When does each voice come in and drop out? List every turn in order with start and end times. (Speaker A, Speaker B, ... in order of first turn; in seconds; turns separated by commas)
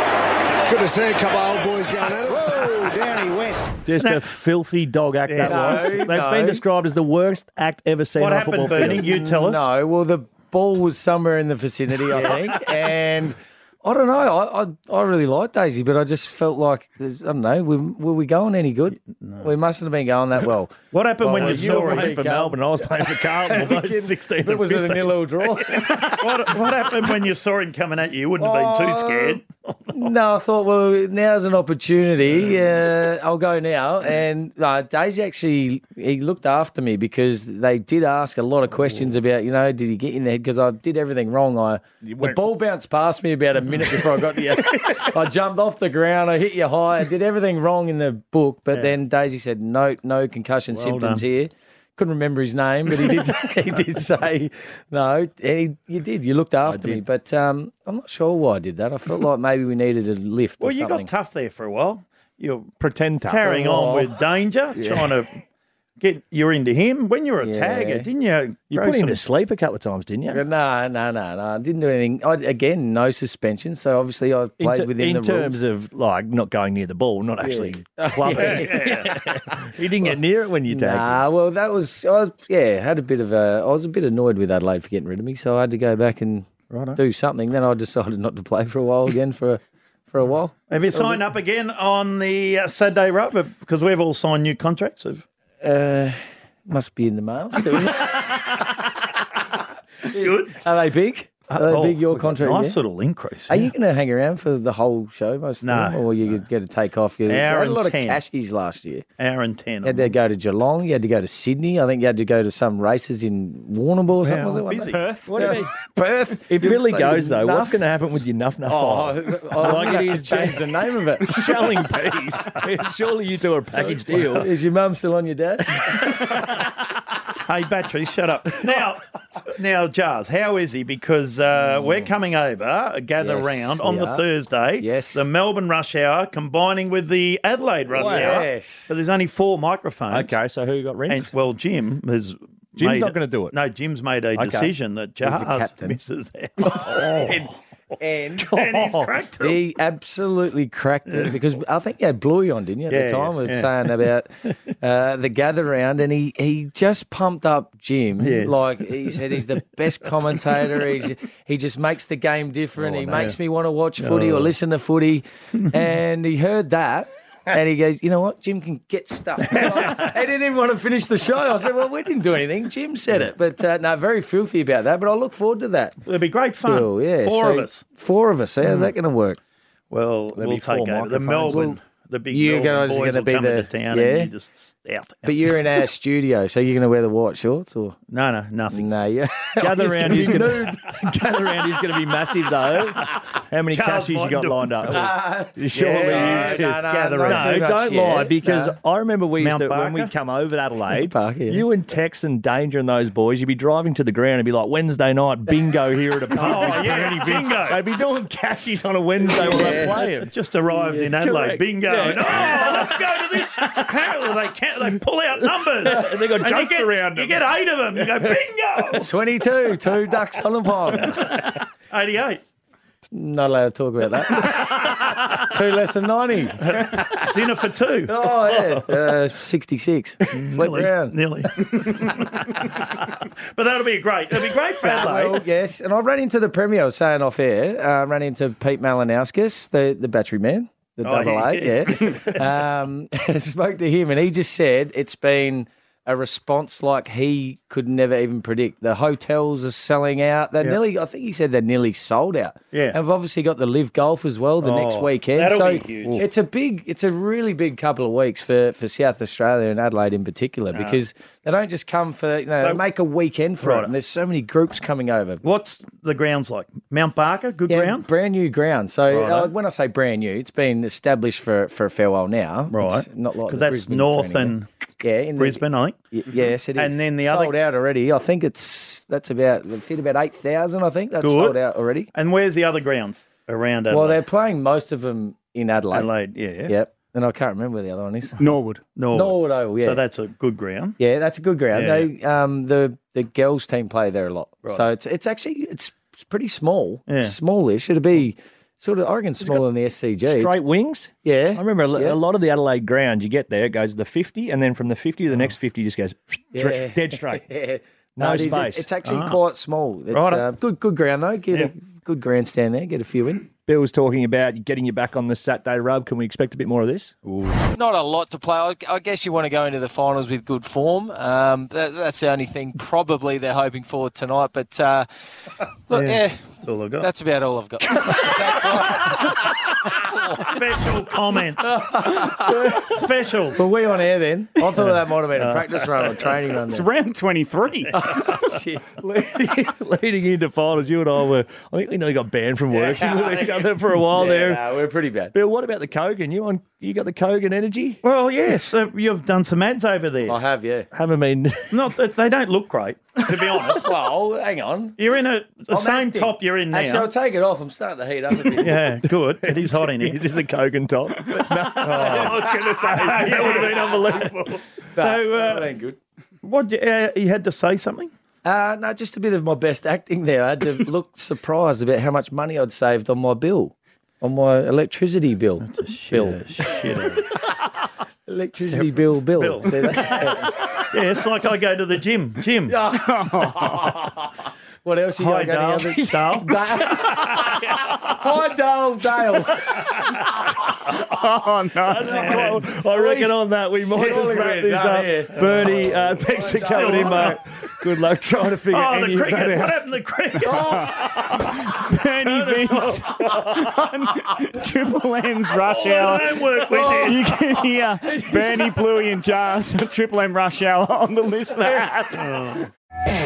Speaker A: 0.6-3.7, Speaker B: 2.2-3.0, Speaker C: 3.8-9.0, Speaker D: 4.0-4.2, Speaker D: 5.3-6.0, Speaker B: 5.4-6.6, Speaker D: 8.2-9.7, Speaker B: 8.7-22.6, Speaker D: 19.2-19.5, Speaker D: 20.9-22.1, Speaker C: 21.5-25.6, Speaker B: 23.4-26.1, Speaker D: 25.8-30.0, Speaker B: 28.4-29.4, Speaker B: 29.9-61.1, Speaker D: 50.7-51.2, Speaker C: 56.7-57.0, Speaker D: 60.6-65.3, Speaker C: 62.8-63.4, Speaker B: 63.4-64.1, Speaker C: 64.7-65.2, Speaker D: 66.0-69.2, Speaker B: 67.4-68.1, Speaker C: 68.7-70.4, Speaker B: 70.3-75.6, Speaker C: 74.6-81.2, Speaker B: 77.4-79.0, Speaker D: 78.2-79.2, Speaker B: 80.7-91.2, Speaker D: 86.7-87.0, Speaker D: 90.7-95.2, Speaker B: 95.6-98.9, Speaker B: 100.0-102.8, Speaker D: 100.1-100.6, Speaker D: 101.5-103.7, Speaker B: 103.5-109.0, Speaker D: 105.6-106.0, Speaker D: 107.2-108.2, Speaker D: 109.2-110.1, Speaker B: 109.8-117.8, Speaker D: 114.2-115.1, Speaker E: 114.9-115.4, Speaker C: 115.2-115.7, Speaker C: 116.5-120.6, Speaker B: 118.6-121.7, Speaker C: 121.2-124.5, Speaker B: 124.2-126.5, Speaker D: 127.3-140.3, Speaker B: 133.2-134.2, Speaker B: 134.8-135.3, Speaker C: 137.9-138.4, Speaker B: 138.0-138.9, Speaker C: 140.1-141.3, Speaker D: 141.1-147.4, Speaker C: 142.8-143.6, Speaker C: 144.3-144.7, Speaker B: 145.2-145.8, Speaker B: 146.6-176.0, Speaker D: 148.4-149.6, Speaker D: 152.9-153.9, Speaker D: 158.2-158.6, Speaker D: 162.8-163.3, Speaker D: 164.0-164.5, Speaker D: 176.0-177.8, Speaker B: 176.6-179.4, Speaker D: 179.9-185.5, Speaker C: 180.3-181.6, Speaker B: 181.4-181.8, Speaker B: 182.3-184.3, Speaker B: 185.2-187.9, Speaker D: 188.1-188.9, Speaker B: 188.7-191.2, Speaker C: 189.6-213.1, Speaker D: 190.0-190.3, Speaker D: 193.7-195.1, Speaker B: 194.9-198.4, Speaker D: 196.0-197.6, Speaker D: 198.4-198.7, Speaker D: 199.4-200.1, Speaker B: 200.9-201.7, Speaker D: 206.3-207.8, Speaker B: 209.3-210.1, Speaker D: 209.7-219.1, Speaker C: 215.7-217.4, Speaker C: 217.9-218.4, Speaker B: 218.9-221.4, Speaker D: 221.9-222.4, Speaker B: 223.1-227.2, Speaker D: 226.7-228.7, Speaker B: 228.1-231.2, Speaker D: 230.3-235.4, Speaker B: 234.8-265.4, Speaker D: 241.0-242.6, Speaker D: 252.7-253.0, Speaker D: 254.6-256.2, Speaker D: 260.7-261.0, Speaker D: 263.6-263.9, Speaker D: 265.4-268.1, Speaker B: 267.7-282.1, Speaker D: 269.1-269.5, Speaker D: 272.7-274.7, Speaker D: 275.4-275.9, Speaker D: 276.7-277.6, Speaker D: 281.2-281.6, Speaker D: 282.1-284.2, Speaker B: 283.9-286.1, Speaker D: 285.9-286.7, Speaker B: 286.7-288.4, Speaker E: 288.4-288.8, Speaker D: 288.9-291.0, Speaker B: 289.1-290.0, Speaker B: 291.0-300.6, Speaker D: 291.7-292.1, Speaker D: 297.1-297.3, Speaker C: 300.2-307.4, Speaker B: 301.2-302.2, Speaker B: 306.5-313.5, Speaker C: 308.2-308.9, Speaker D: 309.0-309.4, Speaker D: 310.1-310.4, Speaker C: 313.7-317.2, Speaker B: 317.5-325.1, Speaker B: 325.9-330.5, Speaker D: 325.9-327.1, Speaker D: 328.7-329.2, Speaker D: 330.3-333.7, Speaker B: 331.6-332.9, Speaker B: 333.5-336.9, Speaker D: 335.3-336.4, Speaker E: 336.6-338.1, Speaker B: 337.9-339.1, Speaker D: 338.1-338.4, Speaker C: 339.0-344.6, Speaker B: 342.8-343.5, Speaker B: 344.1-345.3, Speaker C: 345.3-348.0, Speaker D: 348.0-350.4, Speaker B: 350.2-350.9, Speaker C: 350.9-351.8, Speaker D: 351.7-353.9, Speaker B: 353.4-355.0, Speaker D: 355.0-357.1, Speaker B: 355.7-358.9, Speaker D: 358.6-360.2, Speaker C: 360.0-364.6, Speaker D: 361.7-363.9, Speaker B: 361.9-362.7, Speaker B: 363.3-364.0, Speaker B: 364.9-366.0, Speaker D: 365.0-365.7, Speaker D: 366.4-368.1, Speaker B: 368.4-377.7, Speaker D: 375.6-377.3, Speaker B: 378.2-380.8, Speaker D: 378.6-382.8, Speaker B: 382.7-390.3, Speaker E: 382.9-384.0, Speaker D: 385.2-388.1, Speaker E: 390.9-392.1, Speaker C: 391.8-399.7, Speaker D: 392.0-392.6, Speaker B: 392.3-393.3, Speaker D: 393.9-394.5, Speaker B: 393.9-397.4, Speaker D: 395.4-397.4, Speaker D: 398.7-401.3, Speaker E: 399.4-399.6, Speaker E: 400.3-412.5, Speaker C: 402.1-403.0, Speaker D: 405.5-407.3, Speaker D: 412.2-412.6